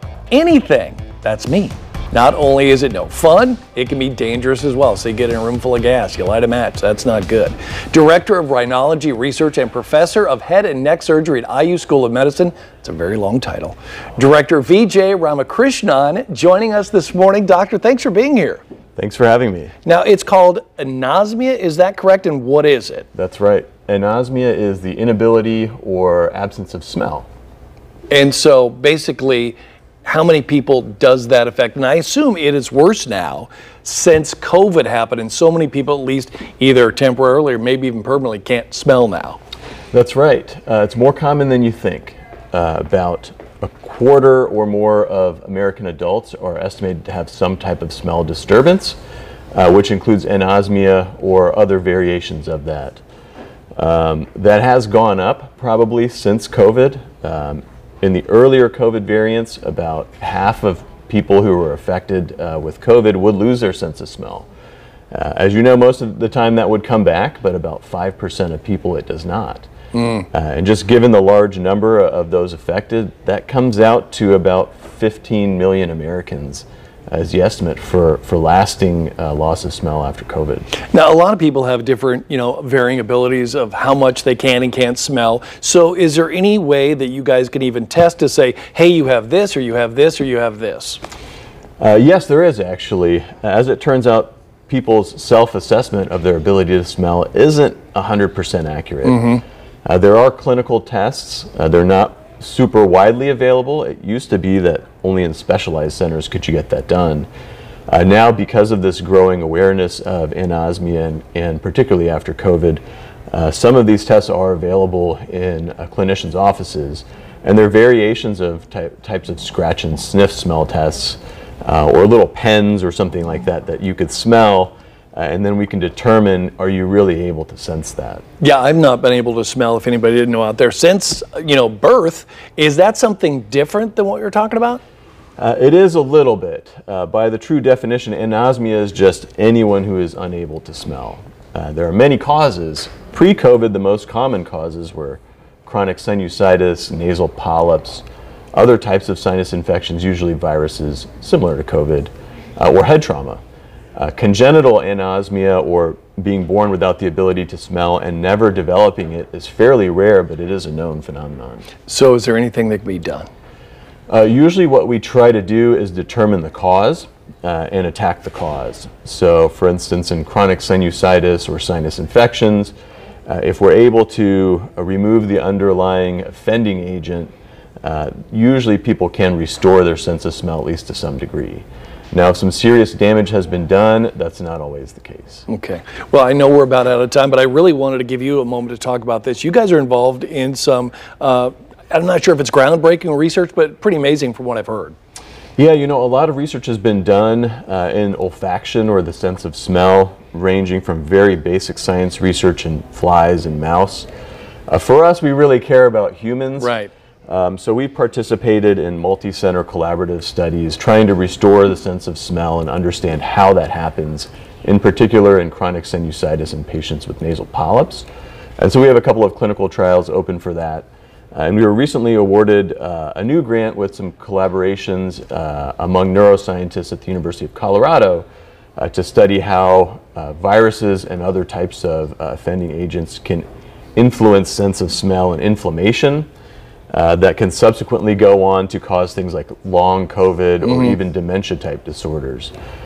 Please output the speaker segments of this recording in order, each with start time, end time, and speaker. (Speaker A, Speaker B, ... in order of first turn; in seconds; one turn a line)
Speaker A: 0.3-18.6
Speaker B: 18.9-19.7
Speaker A: 19.8-23.1
Speaker B: 23.1-27.3
Speaker A: 28.1-39.4
Speaker B: 39.9-49.0
Speaker B: 49.5-53.0
Speaker B: 53.8-64.5
Speaker B: 65.1-69.7
Speaker A: 69.9-70.2
Speaker B: 70.3-80.7
Speaker A: 80.9-91.0
Speaker B: 91.8-107.3
Speaker A: 99.1-99.4
Speaker B: 107.9-128.2
Speaker A: 128.4-134.8
Speaker B: 135.4-153.4
Speaker B: 153.9-161.7
Speaker A: 161.9-163.3
Speaker B: 164.1-172.7
Speaker B: 173.3-177.3
Speaker B: 177.8-185.4
Speaker A: 185.5-194.9
Speaker B: 195.6-204.1
Speaker B: 204.7-206.7
Speaker A: 206.6-206.9
Speaker B: 207.3-218.1
Speaker B: 218.6-236.3
Speaker B: 236.9-242.5
Speaker A: 240.7-240.9